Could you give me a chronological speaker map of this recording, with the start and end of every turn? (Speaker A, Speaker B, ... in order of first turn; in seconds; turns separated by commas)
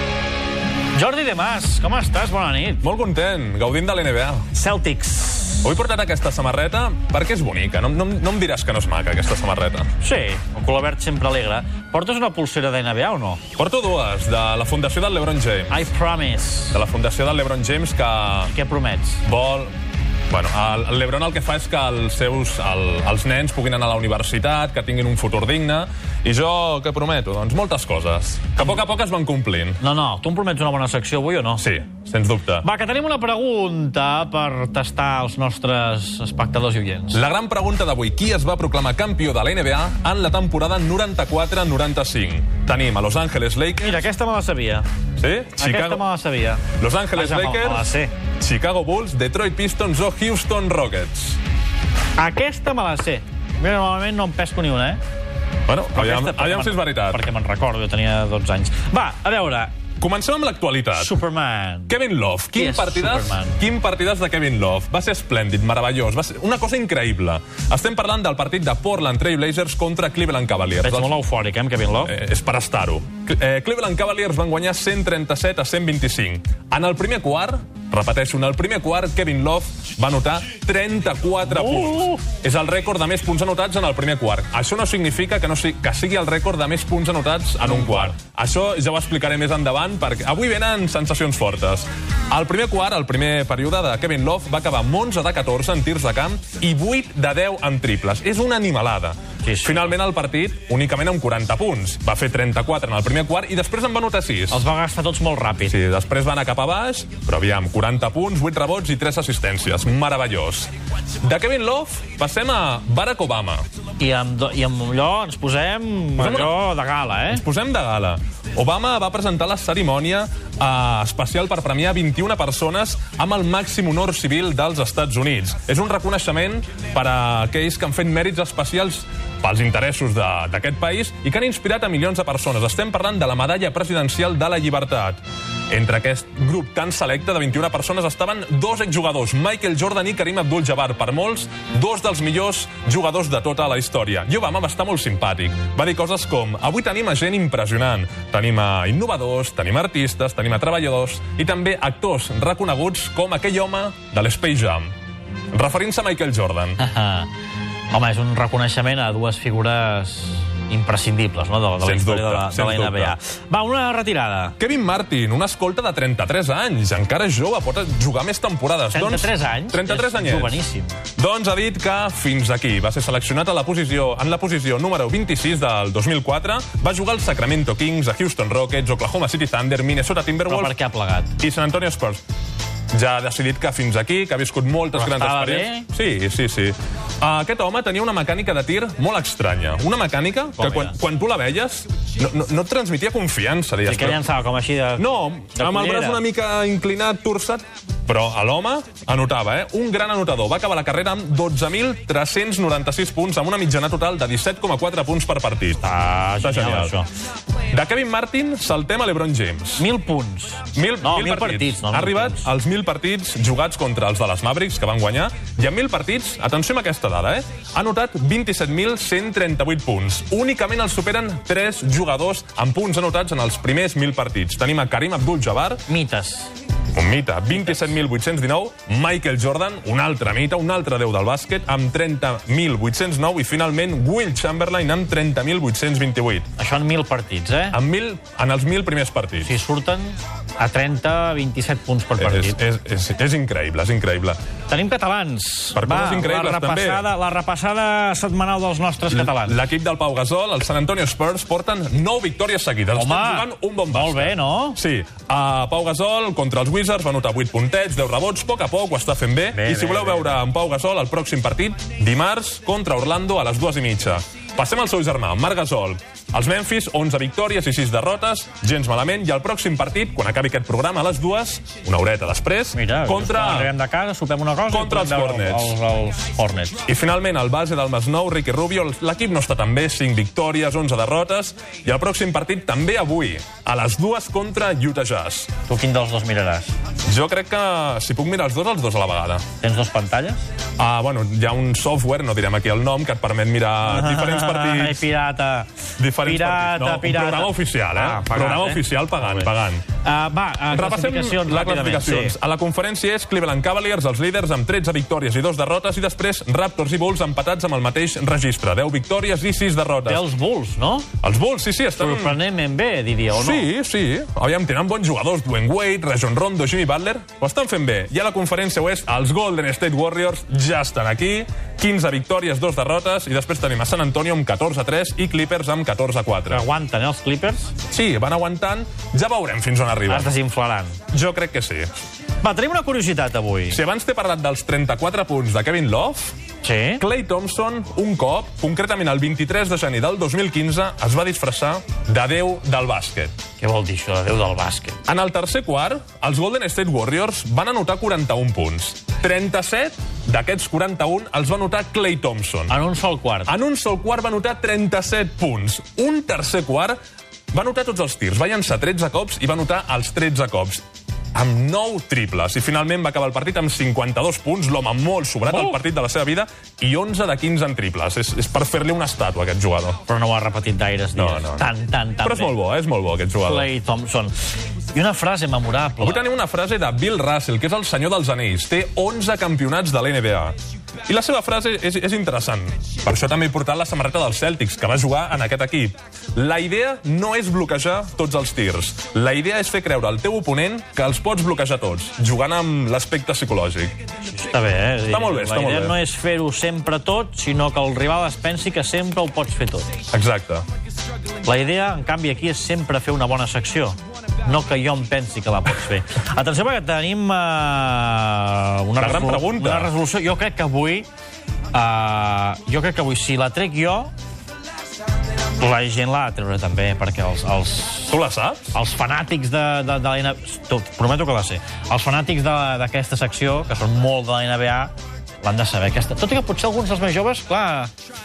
Speaker A: 0.9-2.8, Speaker B: 2.8-4.5, Speaker A: 4.5-5.7, Speaker B: 5.6-9.9, Speaker A: 10.0-13.4, Speaker B: 13.6-15.9, Speaker A: 15.7-16.8, Speaker B: 16.7-18.5, Speaker A: 18.4-19.2, Speaker B: 19.2-19.7, Speaker B: 20.3-29.8, Speaker A: 29.8-31.6, Speaker B: 31.6-32.6, Speaker A: 32.6-37.2, Speaker B: 37.1-44.0, Speaker A: 43.8-44.9, Speaker B: 45.2-46.0, Speaker A: 45.6-48.1, Speaker B: 46.7-51.4, Speaker A: 52.2-55.0, Speaker B: 55.7-57.2, Speaker A: 55.9-59.7, Speaker B: 60.0-61.1, Speaker A: 60.9-61.9, Speaker B: 61.9-71.1, Speaker A: 62.5-63.6, Speaker A: 70.8-72.1, Speaker B: 72.0-104.7, Speaker A: 81.5-82.2, Speaker A: 87.7-88.0, Speaker A: 99.4-99.9, Speaker A: 104.5-105.7, Speaker B: 105.7-110.7, Speaker B: 111.2-113.6, Speaker A: 114.0-117.4, Speaker B: 116.2-116.6, Speaker B: 117.3-154.9, Speaker B: 155.5-156.8, Speaker A: 156.8-157.3, Speaker A: 157.9-164.6, Speaker B: 161.8-163.1, Speaker B: 164.6-170.6, Speaker A: 168.9-171.0, Speaker B: 171.2-180.7, Speaker A: 180.5-181.3, Speaker B: 181.4-182.2, Speaker B: 182.9-194.2, Speaker A: 184.9-185.9, Speaker A: 190.6-190.9, Speaker A: 193.8-196.2, Speaker B: 195.0-205.8, Speaker A: 205.8-207.1, Speaker B: 206.4-206.9, Speaker B: 207.7-209.9, Speaker A: 209.8-212.5, Speaker B: 210.7-225.8, Speaker A: 225.9-226.5, Speaker B: 226.9-236.5, Speaker A: 236.6-237.8, Speaker B: 237.7-239.5, Speaker A: 239.4-242.6, Speaker B: 242.2-244.4, Speaker A: 244.7-249.6, Speaker B: 245.7-247.1, Speaker B: 249.1-273.7, Speaker A: 252.9-254.8, Speaker A: 259.5-260.4, Speaker A: 272.7-276.8, Speaker B: 274.7-275.7, Speaker B: 276.8-285.5, Speaker A: 285.6-286.7, Speaker B: 287.0-289.4, Speaker A: 289.6-290.4, Speaker B: 290.8-295.0, Speaker A: 293.9-299.5, Speaker B: 296.0-299.8, Speaker A: 300.0-302.3, Speaker B: 300.7-310.2, Speaker A: 310.1-311.1, Speaker B: 311.2-312.4, Speaker A: 312.0-313.6, Speaker B: 313.3-326.6, Speaker A: 326.5-327.7, Speaker B: 327.9-330.3, Speaker A: 330.1-331.0, Speaker B: 331.1-331.9, Speaker A: 332.4-333.8, Speaker B: 333.7-336.3, Speaker A: 336.6-337.0, Speaker B: 337.0-343.3, Speaker A: 343.6-345.0, Speaker B: 345.1-352.7, Speaker A: 352.7-353.5, Speaker B: 353.5-357.0, Speaker B: 357.5-360.8, Speaker B: 361.3-370.0, Speaker A: 365.5-365.7, Speaker A: 370.1-372.5, Speaker B: 371.1-371.7, Speaker B: 372.2-373.7, Speaker A: 373.4-374.3, Speaker A: 374.9-376.2, Speaker B: 376.0-380.6, Speaker B: 381.1-394.0, Speaker A: 394.3-399.9, Speaker B: 395.1-396.0, Speaker B: 400.1-400.6, Speaker A: 401.4-411.1, Speaker B: 409.0-409.9, Speaker A: 411.7-414.1, Speaker A: 415.6-418.2, Speaker B: 418.1-418.7, Speaker A: 418.7-427.9